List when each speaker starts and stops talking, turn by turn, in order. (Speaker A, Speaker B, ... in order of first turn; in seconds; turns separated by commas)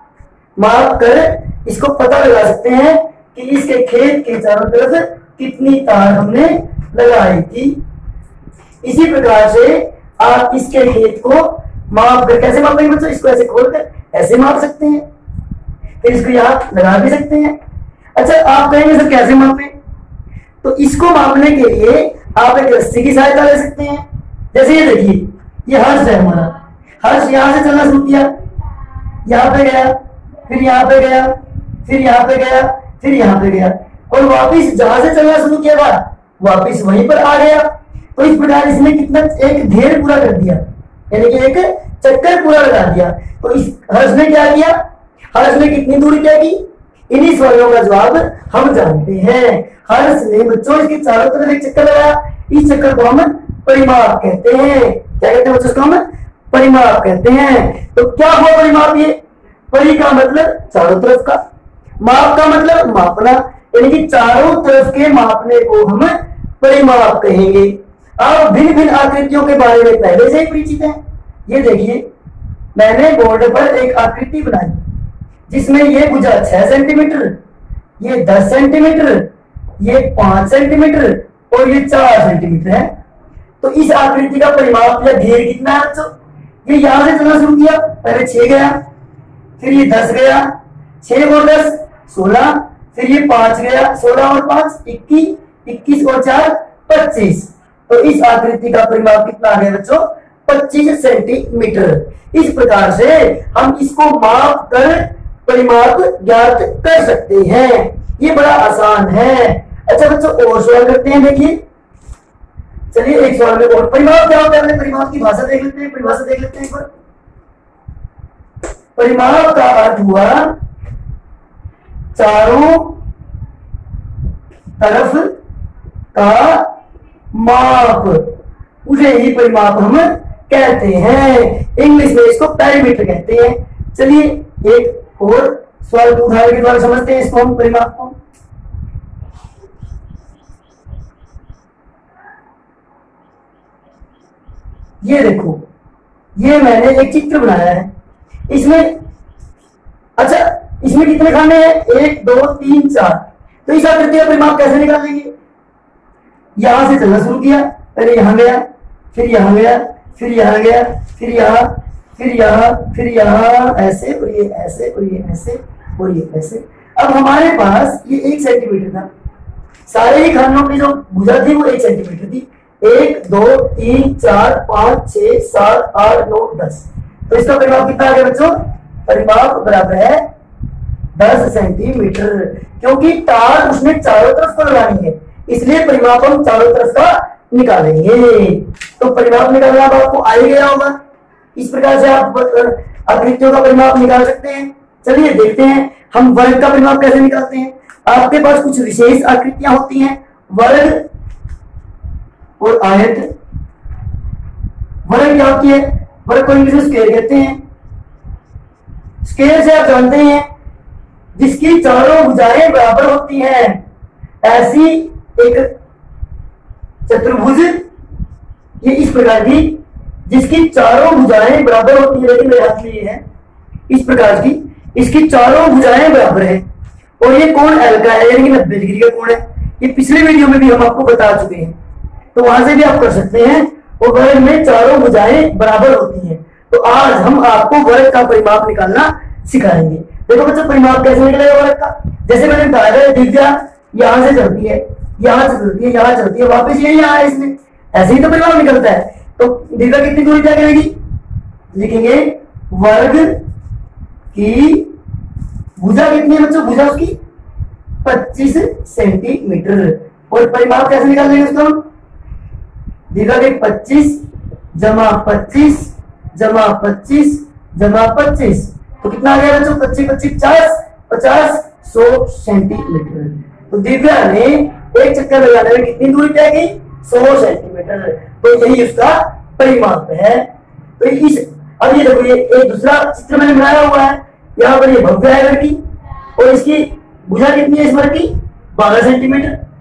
Speaker A: 0.6-7.8, Speaker A: 8.8-15.1, Speaker A: 16.0-17.6, Speaker A: 18.2-19.8, Speaker A: 20.6-28.4, Speaker A: 29.2-44.8, Speaker A: 45.3-59.2, Speaker A: 59.7-61.4, Speaker A: 62.0-72.0, Speaker A: 72.7-74.8, Speaker A: 75.5-77.4, Speaker A: 78.0-82.9, Speaker A: 83.6-86.1, Speaker A: 86.6-88.8, Speaker A: 89.6-111.6, Speaker A: 112.9-116.9, Speaker A: 119.0-120.6, Speaker A: 122.1-123.0, Speaker A: 124.8-125.4, Speaker A: 126.1-126.7, Speaker A: 127.3-138.2, Speaker A: 145.0-145.7, Speaker A: 146.3-147.9, Speaker A: 148.5-149.0, Speaker A: 150.2-155.3, Speaker A: 156.6-169.1, Speaker A: 169.9-178.5, Speaker A: 179.1-180.2, Speaker A: 181.1-190.9, Speaker A: 191.5-201.1, Speaker A: 202.6-203.3, Speaker A: 205.0-207.6, Speaker A: 209.2-210.5, Speaker A: 211.3-213.8, Speaker A: 214.4-215.7, Speaker A: 217.1-217.9, Speaker A: 218.8-223.2, Speaker A: 223.9-226.7, Speaker A: 227.2-231.7, Speaker A: 232.3-250.9, Speaker A: 251.7-253.4, Speaker A: 254.3-254.9, Speaker A: 255.8-257.2, Speaker A: 258.0-261.8, Speaker A: 263.1-280.5, Speaker A: 281.0-285.8, Speaker A: 286.4-289.6